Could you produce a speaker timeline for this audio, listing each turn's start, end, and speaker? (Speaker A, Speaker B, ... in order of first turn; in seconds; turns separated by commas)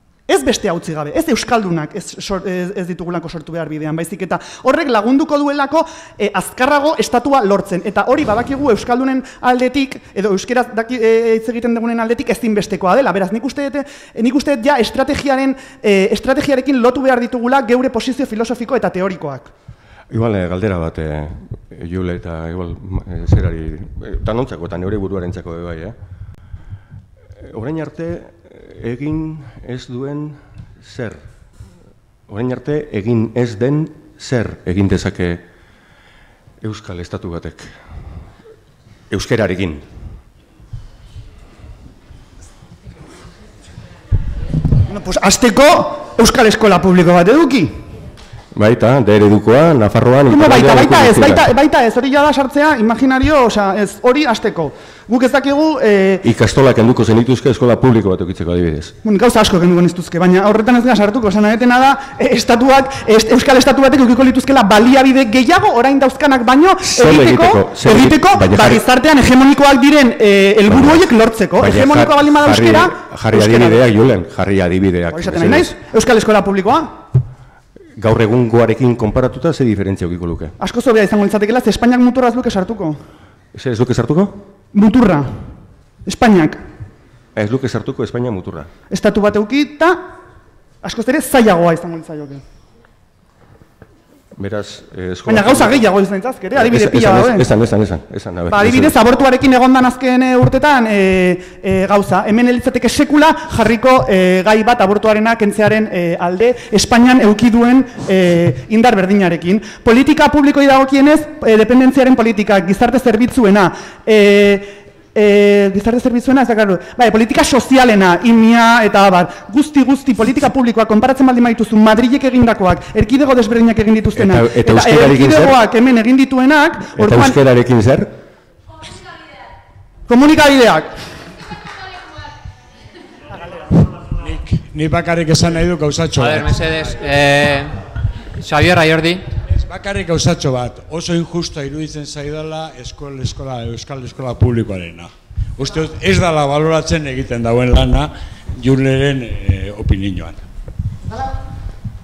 Speaker A: 0.3-19.5, Speaker B: 20.1-26.0, Speaker B: 27.4-31.2, Speaker B: 32.3-35.4, Speaker B: 36.6-37.7, Speaker B: 39.1-39.9, Speaker A: 44.9-47.8, Speaker B: 48.5-51.5, Speaker A: 50.3-56.2, Speaker B: 56.2-58.9, Speaker A: 59.0-73.8, Speaker B: 66.8-68.8, Speaker B: 70.7-75.7, Speaker A: 75.1-77.0, Speaker B: 78.0-80.5, Speaker A: 80.6-83.0, Speaker B: 83.5-84.3, Speaker A: 84.7-85.5, Speaker A: 86.1-86.6, Speaker B: 87.3-88.7, Speaker A: 88.9-90.0, Speaker A: 90.8-92.4, Speaker B: 94.4-95.9, Speaker A: 95.3-97.5, Speaker B: 96.5-99.0, Speaker A: 98.5-127.4, Speaker B: 124.1-125.6, Speaker B: 127.0-128.1, Speaker A: 130.1-131.0, Speaker C: 134.2-136.9, Speaker D: 136.2-137.8, Speaker D: 138.4-139.3, Speaker C: 139.5-150.4